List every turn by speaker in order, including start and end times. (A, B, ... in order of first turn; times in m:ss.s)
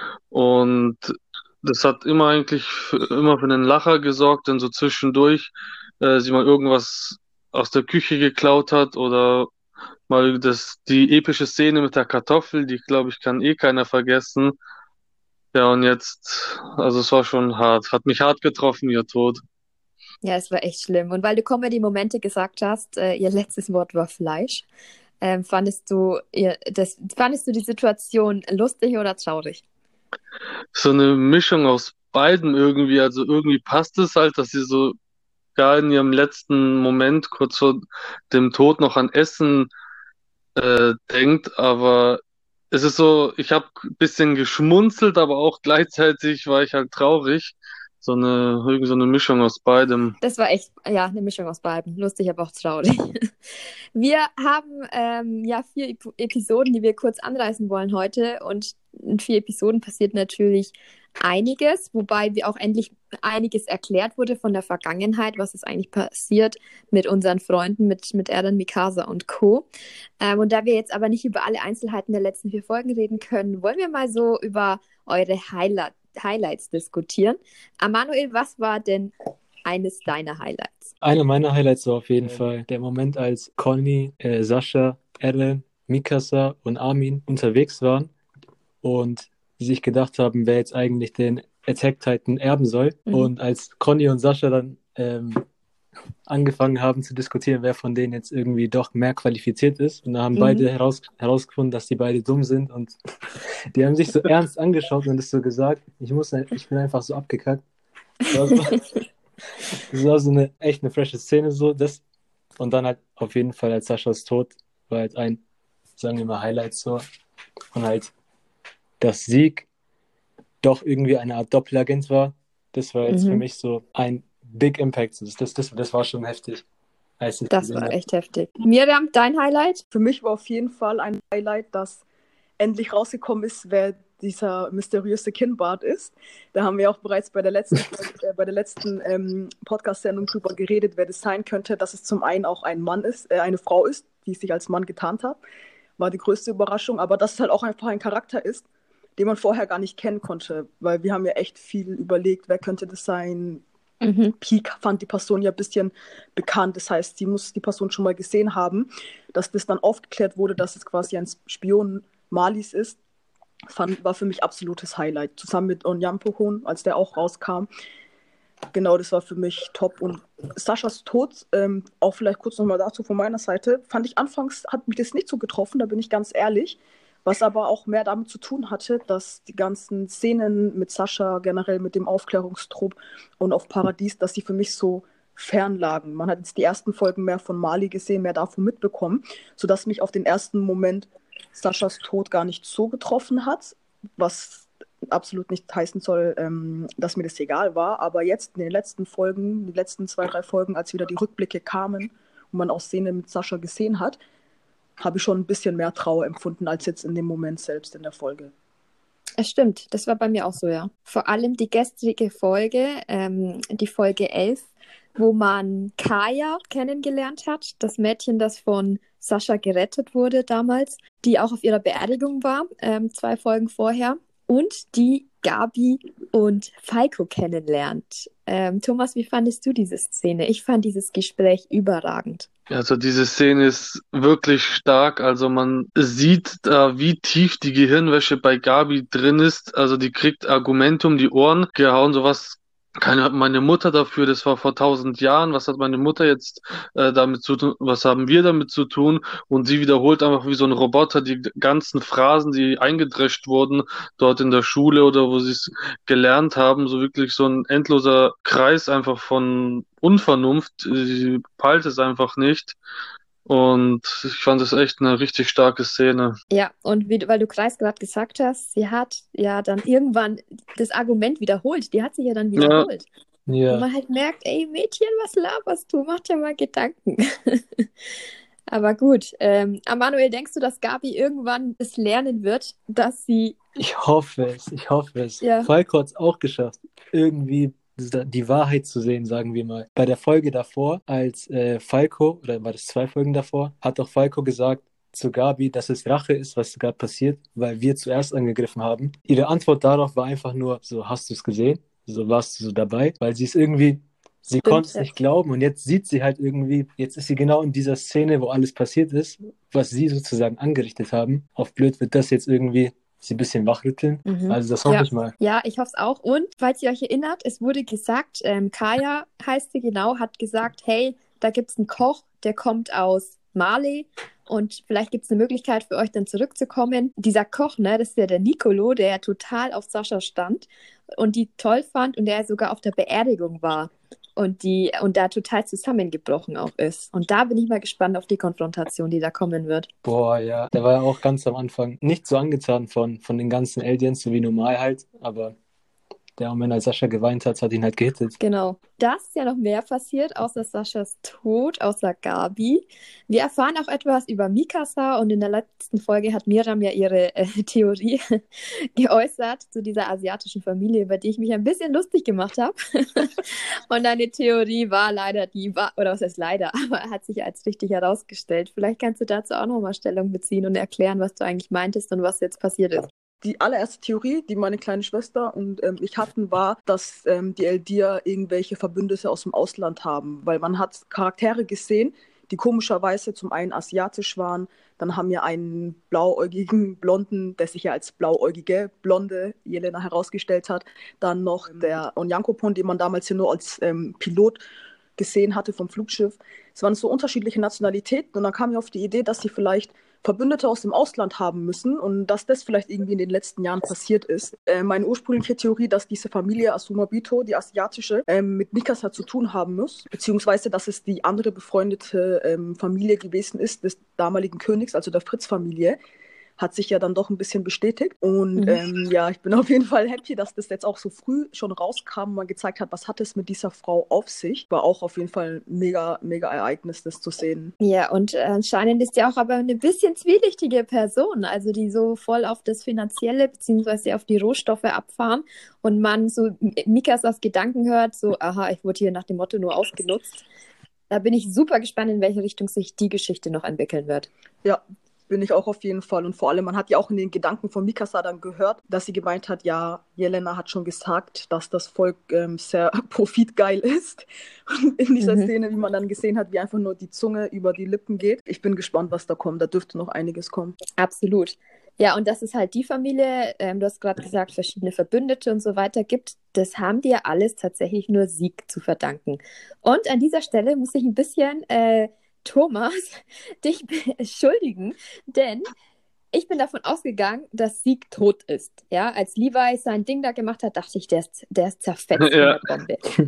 0:00.3-0:05.5 A
0:06.0-0:09.5 A
0:10.1-0:14.5 A
0:15.5-0:19.4 A
0:20.2-0:24.6 B
0:25.2-0:29.6 B
0:30.7-0:35.0 A
0:35.6-0:39.7 A
0:40.6-0:42.2 A
0:42.7-0:50.2 A
0:50.2-1:09.6 B
1:10.2-1:19.1 B
1:19.6-1:20.9 B
1:21.0-1:28.1 C
1:28.8-1:35.4 C
1:36.3-1:42.9 C
1:40.3-1:40.7 B
1:43.7-1:47.6 C
1:48.3-1:48.8 C
1:49.9-1:52.0 C
1:52.6-1:55.4 C
1:56.0-1:57.0 C
1:57.7-1:58.1 C
1:59.0-1:59.7 C
2:00.6-2:06.6 C
2:03.1-2:03.4 B
2:07.2-2:08.0 C
2:07.5-2:09.8 B
2:09.9-2:12.0 D
2:12.6-2:25.4 D
2:26.0-2:28.6 D
2:29.2-2:33.6 D
2:34.0-2:34.3 B
2:34.4-2:43.0 D
2:43.7-2:47.7 D
2:48.7-3:24.2 D
3:25.0-3:28.5 D
3:29.4-3:52.5 B
3:52.7-4:22.8 A
4:23.4-4:26.3 A
4:26.5-4:33.1 B
4:32.6-4:32.9 A
4:33.5-4:33.8 C
4:33.7-4:37.9 B
4:38.7-4:43.6 B
4:43.8-5:15.3 C
4:45.4-4:45.7 B
5:04.6-5:05.1 B
5:14.2-5:39.9 B
5:40.0-5:45.5 C
5:46.4-5:48.4 C
5:48.4-5:58.2 B
5:59.0-6:13.1 B
6:13.4-6:34.6 D
6:35.2-6:56.0 D
6:56.6-7:07.7 D
6:58.6-6:58.8 B
7:07.8-7:20.4 B
7:21.1-7:24.3 B
7:24.6-7:40.8 D
7:35.2-7:35.5 B
7:41.0-7:55.7 B
7:56.3-8:03.0 B
8:02.2-8:02.6 A